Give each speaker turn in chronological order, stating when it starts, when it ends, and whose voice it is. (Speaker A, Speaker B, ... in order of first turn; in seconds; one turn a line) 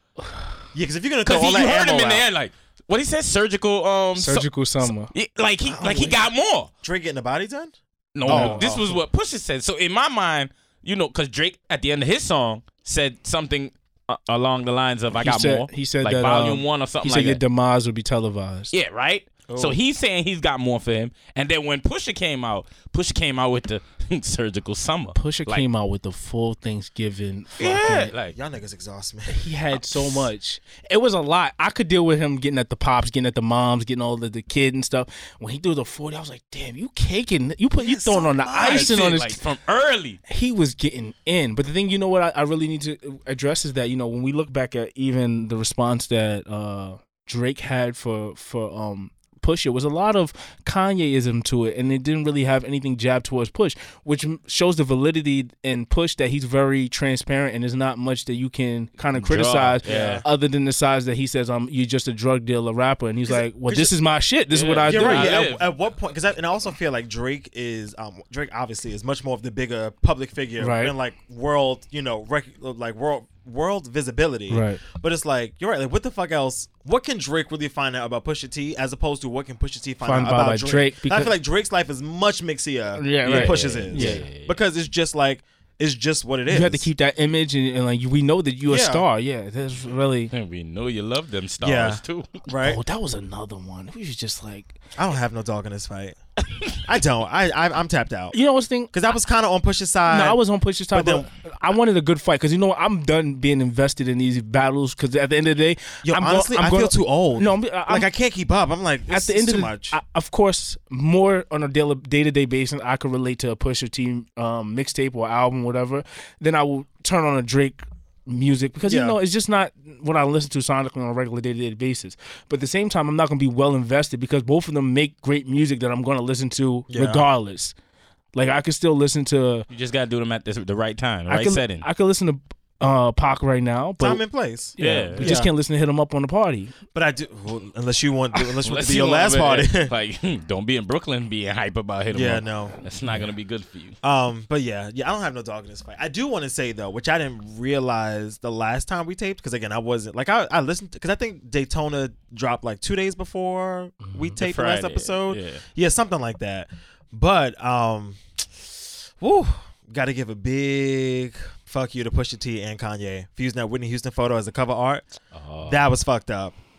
Speaker A: 0.2-0.5
Speaker B: 0.7-2.3
Speaker C: 1.2-6.7
Speaker A: 4.2-5.1
Speaker B: 5.7-6.2
Speaker B: 6.8-9.0
Speaker C: 8.1-17.4
Speaker A: 8.2-8.7
Speaker A: 15.2-18.7
Speaker C: 18.7-25.6
Speaker B: 19.5-19.8
Speaker A: 25.1-28.1
Speaker C: 27.6-28.4
Speaker B: 28.2-29.5
Speaker A: 29.3-39.4
Speaker B: 37.8-39.1
Speaker C: 38.5-40.2
Speaker A: 40.3-65.4
Speaker C: 59.1-60.2
Speaker B: 59.8-60.2
Speaker B: 63.2-64.0
Speaker C: 64.5-65.7
Speaker B: 64.8-86.9
Speaker A: 70.6-70.9
Speaker A: 74.5-74.8
Speaker A: 80.0-81.3
Speaker A: 83.0-84.2
Speaker C: 83.2-84.5
Speaker A: 86.5-90.3
Speaker B: 88.7-89.1
Speaker C: 90.3-92.4
Speaker B: 91.6-92.8
Speaker A: 92.6-94.7
Speaker B: 95.0-96.2
Speaker B: 96.8-98.3
Speaker A: 98.3-98.9
Speaker B: 98.9-100.4
Speaker A: 100.1-108.1
Speaker B: 100.9-101.3
Speaker B: 106.0-110.0
Speaker A: 109.1-127.7
Speaker B: 118.8-119.2
Speaker B: 126.9-127.3
Speaker A: 128.3-129.7
Speaker C: 129.7-131.8
Speaker A: 131.3-134.2
Speaker B: 134.0-135.5
Speaker A: 134.8-136.7
Speaker C: 134.8-135.4
Speaker B: 136.9-139.9
Speaker C: 138.6-143.9
Speaker B: 142.1-142.8
Speaker A: 143.0-143.3
Speaker B: 144.0-165.1
Speaker A: 154.0-154.4
Speaker C: 154.4-155.6
Speaker C: 165.3-165.8
Speaker B: 165.7-166.6